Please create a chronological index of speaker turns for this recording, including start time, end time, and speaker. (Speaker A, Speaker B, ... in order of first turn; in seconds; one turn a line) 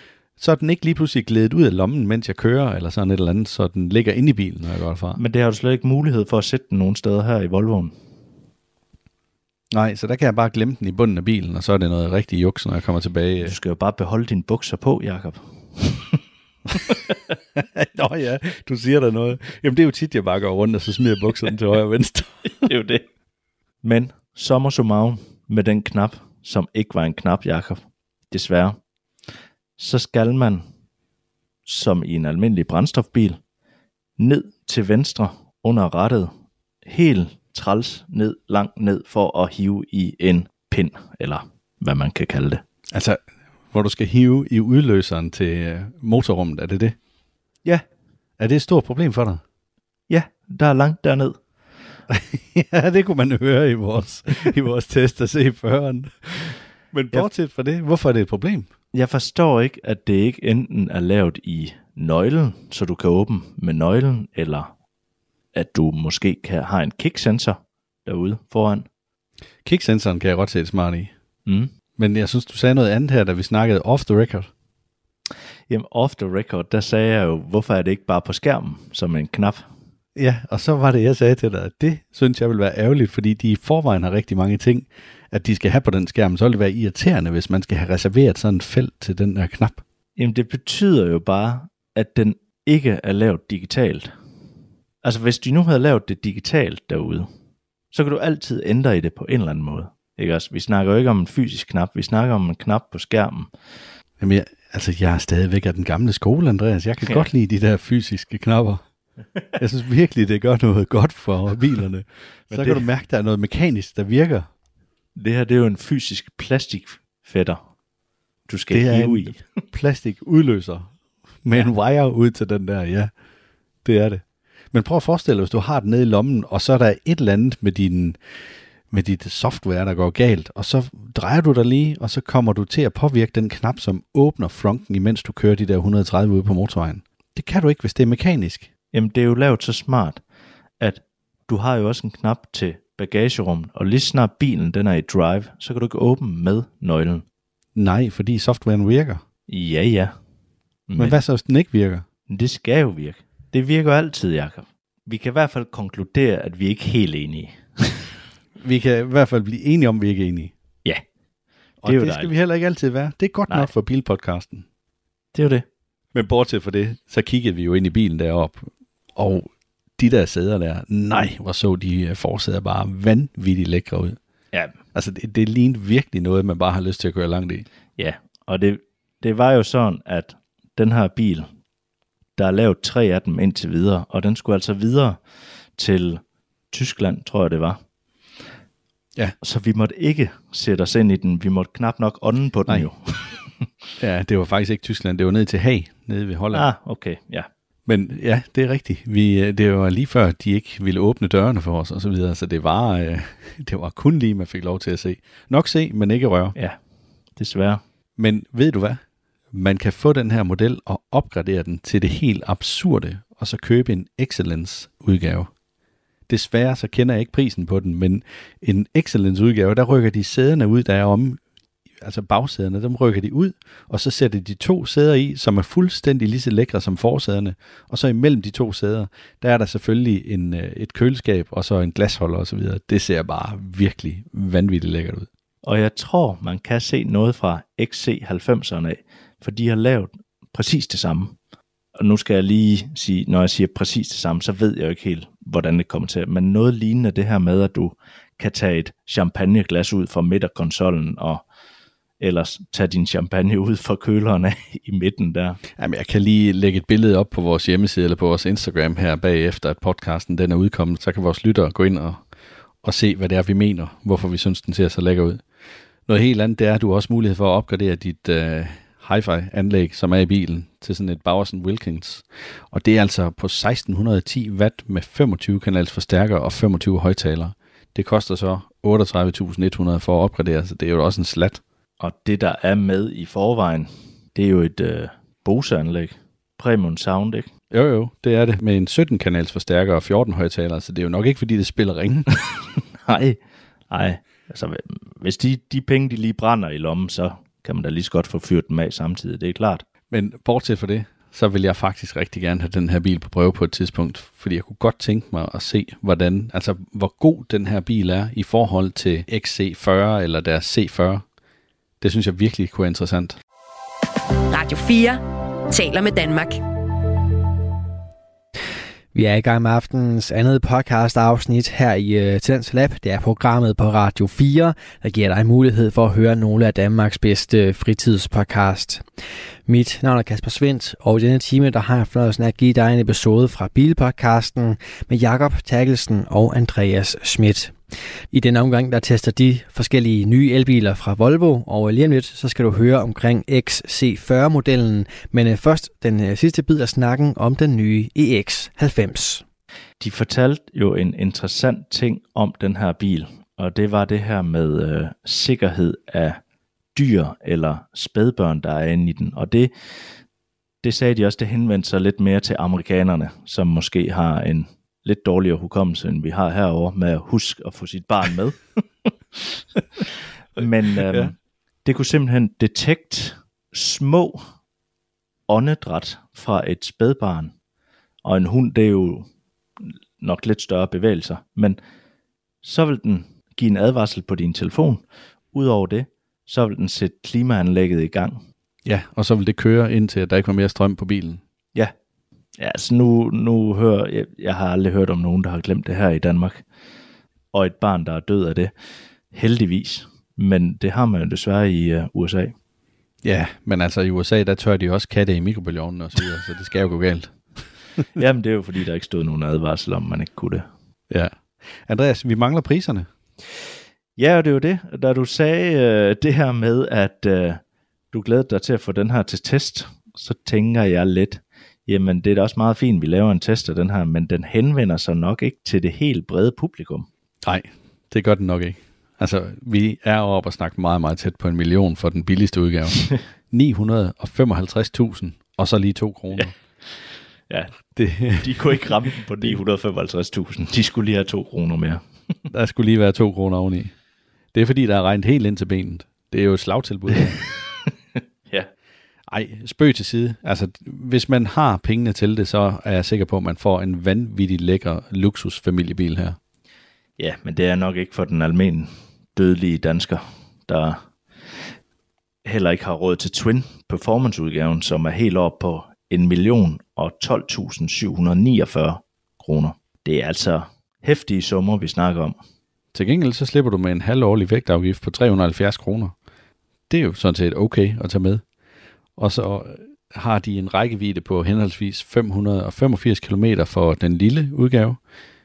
Speaker A: 0.4-5.2
Speaker B: 5.2-7.9
Speaker A: 9.7-13.5
Speaker B: 13.4-16.2
Speaker B: 16.8-17.1
Speaker A: 17.6-22.7
Speaker B: 22.6-23.0
Speaker B: 23.8-28.8
Speaker B: 29.8-30.6
Speaker B: 31.6-33.4
Speaker B: 34.2-36.3
Speaker B: 36.8-42.6
Speaker A: 42.9-43.2
Speaker A: 43.7-47.0
Speaker A: 48.4-49.4
Speaker B: 50.1-51.4
Speaker A: 52.1-58.7
Speaker B: 58.9-64.7
Speaker B: 65.5-68.8
Speaker A: 69.6-71.1
Speaker B: 71.5-71.7
Speaker A: 72.0-74.5
Speaker B: 75.7-79.6
Speaker A: 80.2-89.8
Speaker B: 90.2-94.1
Speaker B: 95.0-97.3
Speaker B: 97.9-103.5
Speaker A: 104.2-108.8
Speaker A: 109.6-114.5
Speaker B: 112.5-112.8
Speaker B: 115.2-117.6
Speaker B: 118.5-119.4
Speaker A: 118.7-120.9
Speaker A: 121.4-123.1
Speaker A: 123.8-128.2
Speaker A: 128.9-138.7
Speaker B: 138.9-140.2
Speaker B: 140.8-147.2
Speaker A: 147.8-149.2
Speaker B: 149.5-150.1
Speaker B: 150.9-151.2
Speaker A: 151.0-152.0
Speaker B: 152.3-158.1
Speaker A: 158.6-160.5
Speaker A: 161.8-164.6
Speaker B: 161.8-162.3
Speaker B: 165.3-165.7
Speaker A: 166.1-174.2
Speaker A: 174.9-177.7
Speaker B: 178.0-181.5
Speaker B: 182.4-185.2
Speaker B: 185.8-187.8
Speaker B: 189.4-193.4
Speaker A: 194.0-196.6
Speaker B: 196.5-197.5
Speaker A: 197.9-206.5
Speaker B: 207.4-207.8
Speaker A: 208.2-209.0
Speaker A: 209.5-215.5
Speaker A: 216.3-221.4
Speaker A: 222.0-235.3
Speaker B: 235.6-241.3
Speaker B: 242.0-251.4
Speaker B: 252.2-255.6
Speaker A: 255.8-262.2
Speaker A: 262.8-265.4
Speaker A: 266.1-281.6
Speaker B: 282.0-287.5
Speaker A: 287.7-292.4
Speaker B: 293.1-293.4
Speaker B: 293.9-299.8
Speaker A: 300.1-311.2
Speaker A: 312.0-313.4
Speaker C: 314.5-316.6
Speaker D: 319.1-329.0
Speaker D: 329.7-337.7
Speaker D: 338.3-349.4
Speaker B: 350.0-356.4
Speaker B: 356.9-359.7
Speaker B: 360.8-368.6
Speaker B: 370.6-371.3
Speaker B: 371.8-374.4
Speaker B: 375.5-377.5
Speaker B: 378.2-379.2
Speaker B: 380.2-381.8
Speaker B: 382.6-388.4
Speaker A: 388.8-391.4
Speaker B: 392.6-396.6
Speaker B: 397.5-398.7
Speaker B: 399.3-402.5
Speaker A: 403.2-407.3
Speaker B: 408.1-410.6
Speaker A: 411.1-411.3
Speaker A: 411.9-413.1
Speaker B: 414.2-417.6
Speaker B: 418.1-427.1
Speaker A: 427.4-436.5
Speaker B: 437.5-437.7
Speaker A: 437.9-438.7
Speaker B: 438.4-442.0
Speaker A: 442.5-443.9
Speaker A: 444.5-447.4
Speaker A: 449.3-456.4
Speaker B: 457.2-461.0
Speaker B: 462.4-472.4
Speaker A: 472.9-476.1
Speaker A: 476.9-478.4
Speaker A: 479.2-485.0